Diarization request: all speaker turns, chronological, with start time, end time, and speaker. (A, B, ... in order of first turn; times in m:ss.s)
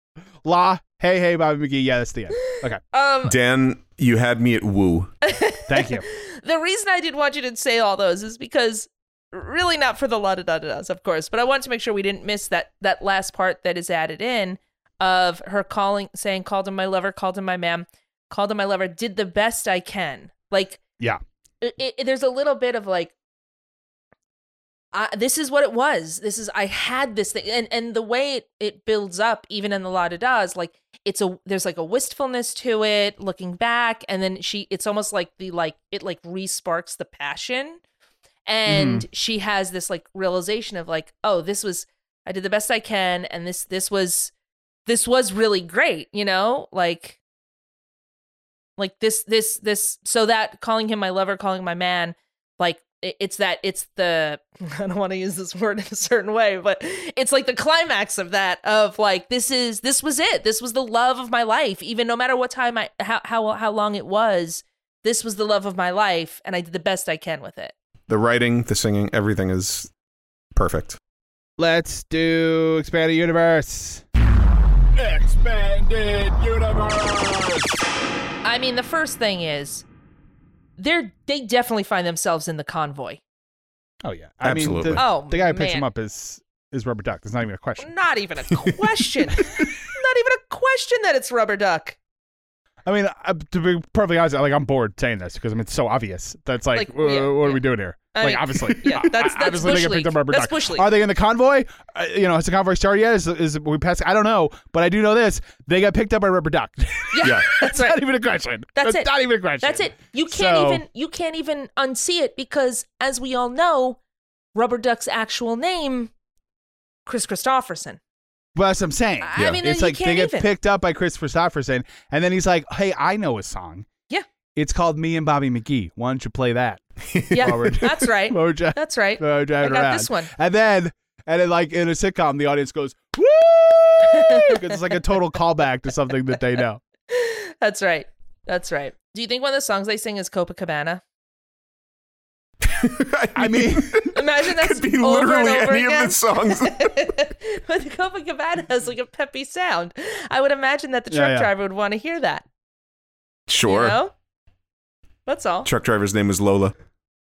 0:00.4-0:02.8 A
0:02.6-0:03.4 B
0:03.2-0:05.2 C
0:05.2-0:20.8 B
0:05.7-0:06.1 A
0:21.6-0:23.1 B
0:24.9-0:37.8 B
0:38.5-0:44.3 B
0:38.7-0:39.1 A
0:44.9-0:47.2 B
0:48.8-1:07.7 B
1:08.1-1:09.9 C
1:10.6-1:11.0 C
1:11.6-1:14.1 A
1:14.9-1:17.7 A
1:18.4-1:19.9 B
1:20.8-1:23.2 B
1:24.0-1:27.9 A
1:24.4-1:25.0 C
1:24.9-1:25.8 B
1:27.8-1:32.0 B
1:32.9-1:50.8 A
1:36.7-1:40.9 B
1:47.1-1:48.0 B
1:47.2-1:47.5 C
1:48.8-1:54.0 B
1:54.6-1:56.1 B
1:57.1-1:58.0 B
1:58.6-2:03.9 A
1:59.2-2:00.5 B
1:59.4-1:59.6 C
2:04.6-2:16.8 A
2:07.1-2:07.9 C
2:07.3-2:10.3 B
2:14.1-2:14.9 B
2:17.1-2:21.0 B
2:22.6-2:27.1 C
2:23.4-2:24.1 A
2:24.1-2:32.4 B
2:31.1-2:31.5 A
2:33.5-2:34.0 C
2:33.7-2:34.1 B
2:35.3-2:35.7 B
2:35.6-2:36.8 C